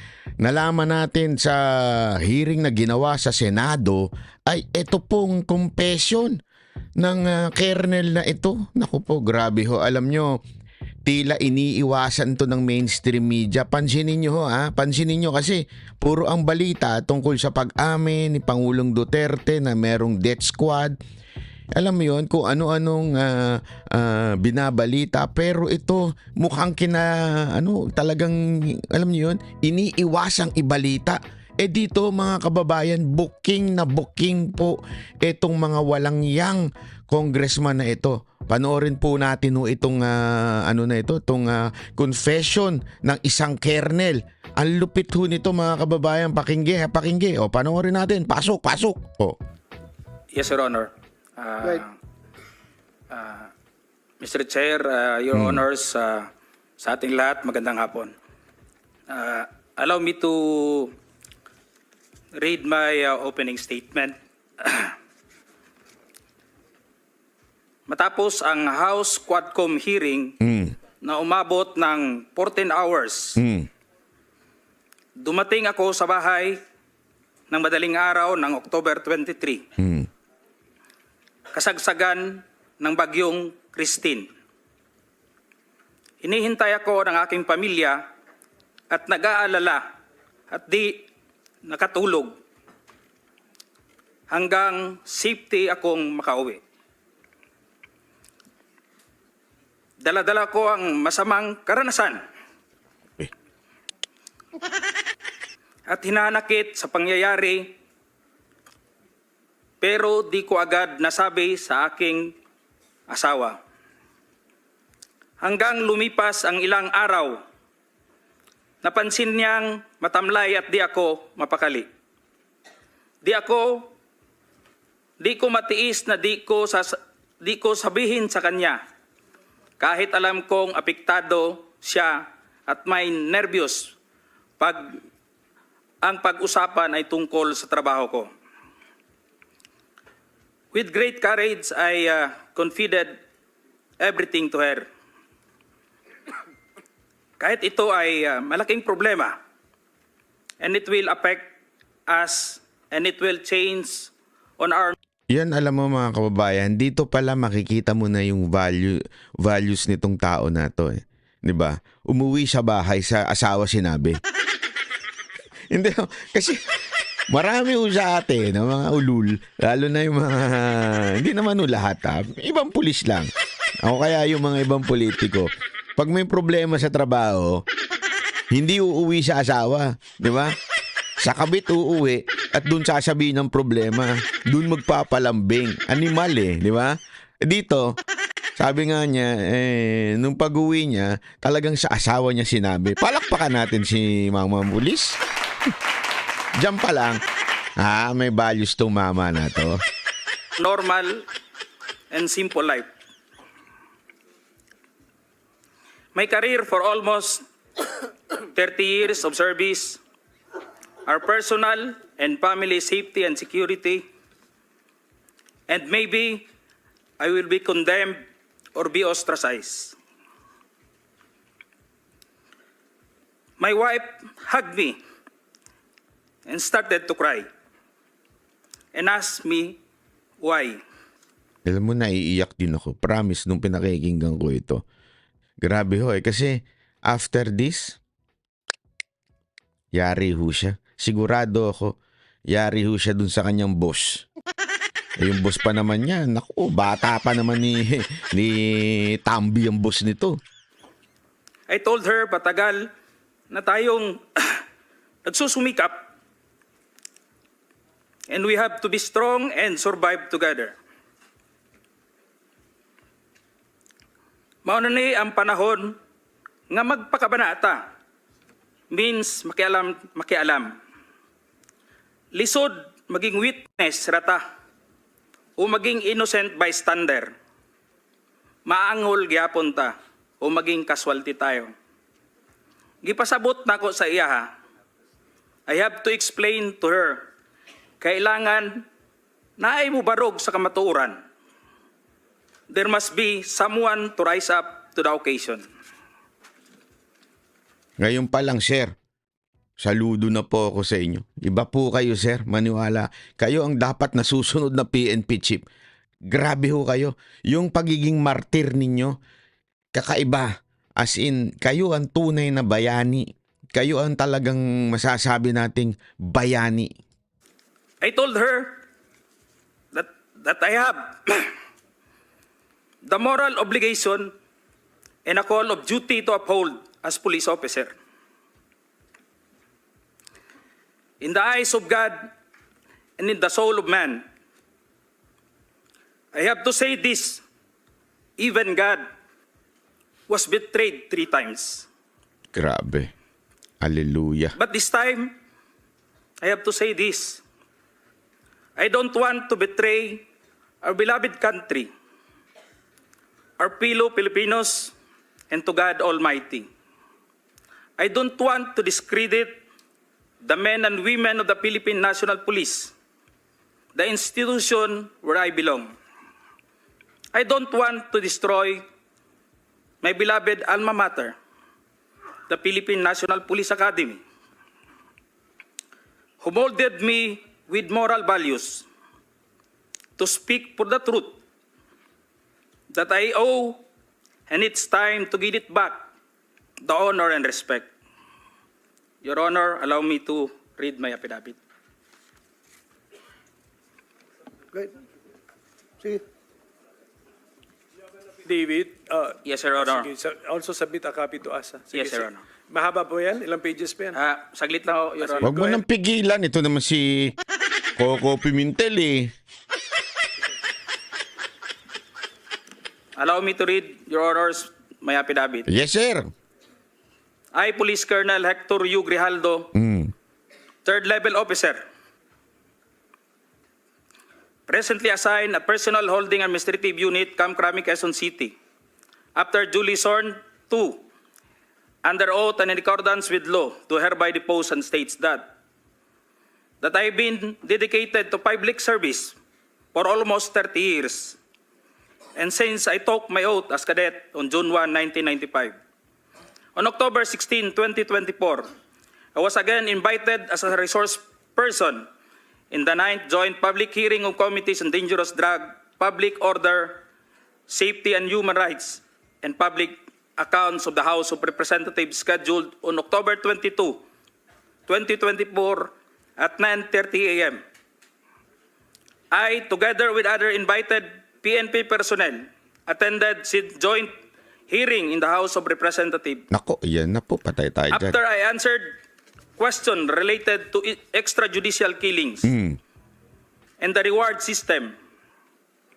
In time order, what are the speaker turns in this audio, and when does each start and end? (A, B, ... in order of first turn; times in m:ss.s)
0:00.4-0:06.4 A
0:07.0-0:10.4 A
0:11.0-0:21.0 A
0:21.7-0:49.4 A
0:50.3-0:51.9 B
0:53.1-0:53.5 B
0:54.2-0:58.1 B
0:55.3-0:55.6 A
0:59.1-1:00.9 B
1:02.3-1:05.0 B
1:07.9-1:10.4 B
1:10.4-1:10.7 A
1:11.0-1:13.4 B
1:13.4-1:13.7 A
1:15.2-1:16.6 B
1:17.5-1:19.7 B
1:19.8-1:20.1 A
1:21.5-1:24.3 B
1:26.2-1:28.0 B
1:28.9-1:29.8 B
1:30.5-1:31.0 B
1:31.6-1:32.3 B
1:34.3-1:36.6 B
1:40.0-1:42.2 B
1:45.9-1:47.7 B
1:49.8-1:52.3 B
1:53.1-1:53.6 B
1:55.4-1:57.4 B
1:58.8-2:01.8 B
2:03.2-2:03.9 B
2:05.2-2:08.8 B
2:09.8-2:13.9 B
2:14.6-2:15.0 B
2:16.0-2:18.3 B
2:20.7-2:23.2 B
2:24.0-2:24.8 B
2:27.4-2:29.3 B
2:30.6-2:31.5 B
2:32.1-2:34.9 B
2:35.3-2:44.2 A
2:45.7-2:46.6 A
2:47.3-2:53.3 A
2:53.8-2:57.6 A
2:58.5-3:00.5 A
3:01.2-3:08.0 A
3:08.6-3:15.2 A
3:16.6-3:17.2 A
3:17.8-3:19.8 A
3:20.6-3:21.2 B
3:22.1-3:22.9 B
3:26.1-3:27.4 B
3:28.5-3:30.0 B
3:31.1-3:34.0 B
3:35.7-3:36.4 B
3:37.2-3:38.2 B
3:38.7-3:40.0 B
3:43.6-3:45.0 B
3:46.4-3:47.5 B
3:48.9-3:49.8 B
3:50.4-3:50.8 B
3:51.6-3:54.8 A
3:55.6-3:58.0 A
3:59.9-4:02.0 A
4:02.5-4:04.2 A
4:05.2-4:10.4 A
4:11.7-4:12.9 B
4:13.5-4:14.6 B
4:15.2-4:16.0 B
4:18.3-4:20.7 B
4:24.6-4:26.0 B
4:26.7-4:27.8 B
4:28.9-4:30.8 B
4:32.3-4:34.4 B
4:35.6-4:37.3 B
4:38.6-4:41.7 B
4:43.0-4:44.5 B
4:45.7-4:47.2 B
4:48.0-4:48.8 B
4:49.6-4:51.2 B
4:52.7-4:55.6 B
4:58.0-4:58.9 A
4:59.8-5:05.6 A
5:06.3-5:09.2 A
5:09.9-5:17.0 A
5:18.0-5:18.8 B
5:19.9-5:21.5 B
5:23.0-5:24.3 B
5:25.2-5:27.9 B
5:31.2-5:32.3 B
5:33.2-5:34.2 B
5:36.3-5:37.4 B
5:38.4-5:39.0 B
5:40.3-5:41.8 B
5:42.5-5:43.1 A
5:43.8-5:44.5 A
5:44.6-5:45.3 B
5:46.4-5:47.4 B
5:48.8-5:50.2 B
5:50.8-5:51.9 B
5:53.6-5:54.9 B
5:55.5-5:56.7 B
5:58.0-5:59.6 B
6:00.4-6:02.9 B
6:03.9-6:05.9 B
6:07.3-6:08.8 B
6:10.0-6:11.3 B
6:12.5-6:14.2 B
6:16.4-6:18.8 B
6:20.2-6:21.4 B
6:22.9-6:23.8 B
6:24.5-6:26.0 B
6:26.8-6:27.9 B
6:29.2-6:31.6 B
6:38.4-6:44.2 C
6:39.4-6:40.1 B
6:41.9-6:42.4 B
6:44.1-6:45.5 B
6:45.2-6:45.8 C
6:45.4-6:47.4 A
6:48.0-6:49.3 A
6:53.2-6:55.7 B
6:55.7-6:56.3 A
6:57.5-6:59.7 B
6:59.7-7:00.1 A
7:00.8-7:01.8 B
7:04.7-7:08.5 B
7:09.4-7:11.0 B
7:12.0-7:15.4 B
7:16.8-7:19.4 B
7:19.9-7:21.4 B
7:22.4-7:25.8 B
7:26.8-7:28.7 B
7:29.3-7:32.1 B
7:32.7-7:37.0 B
7:37.7-7:44.0 B
7:44.9-7:47.6 B
7:49.3-7:54.1 B
7:54.7-7:56.4 B
7:56.5-7:58.2 A
7:57.9-7:58.9 B
7:59.6-8:02.5 B
8:02.4-8:02.8 A
8:03.8-8:04.9 B